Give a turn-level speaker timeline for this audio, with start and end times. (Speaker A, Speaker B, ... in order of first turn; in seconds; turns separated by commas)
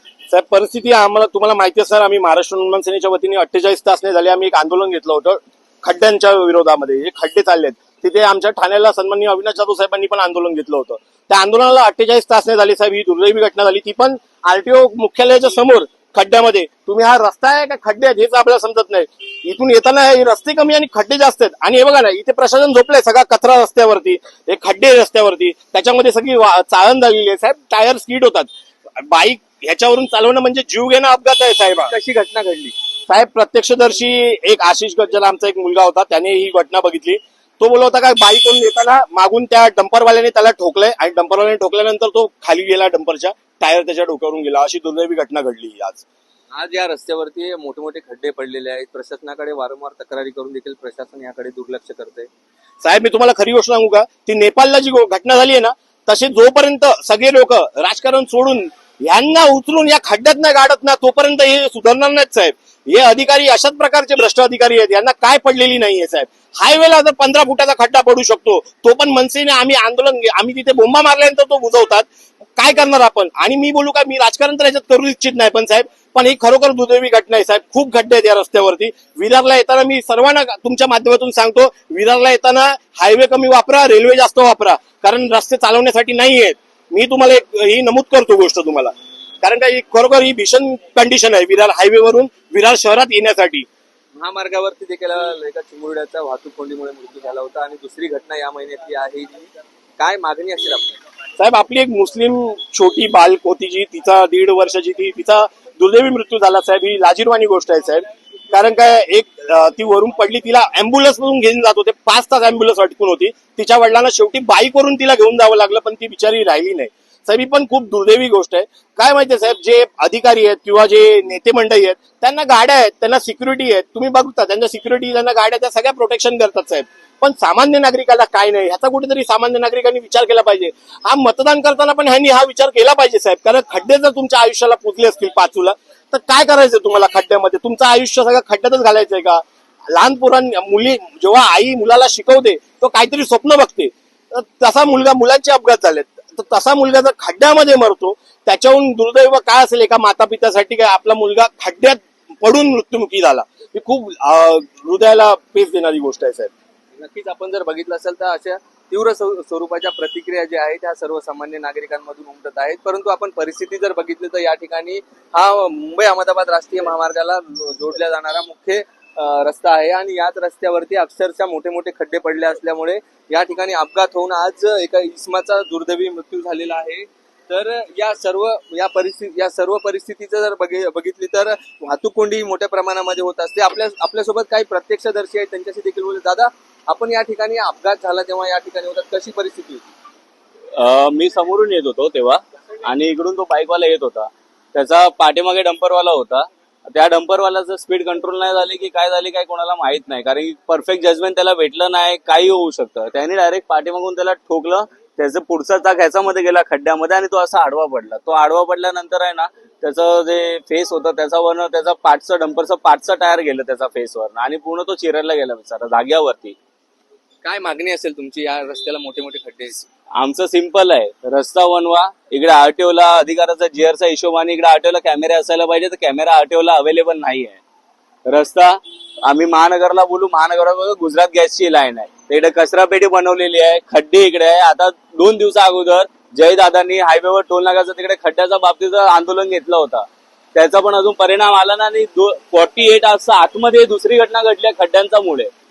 Speaker A: 0.3-31.9, Speaker B: 31.9-32.7, Speaker A: 33.1-46.0, Speaker B: 46.5-52.3, Speaker A: 52.8-93.7, Speaker B: 94.2-101.0, Speaker A: 101.4-156.5, Speaker B: 156.9-189.8, Speaker C: 190.8-216.6, Speaker B: 217.4-219.8, Speaker C: 220.2-227.6, Speaker C: 228.3-245.5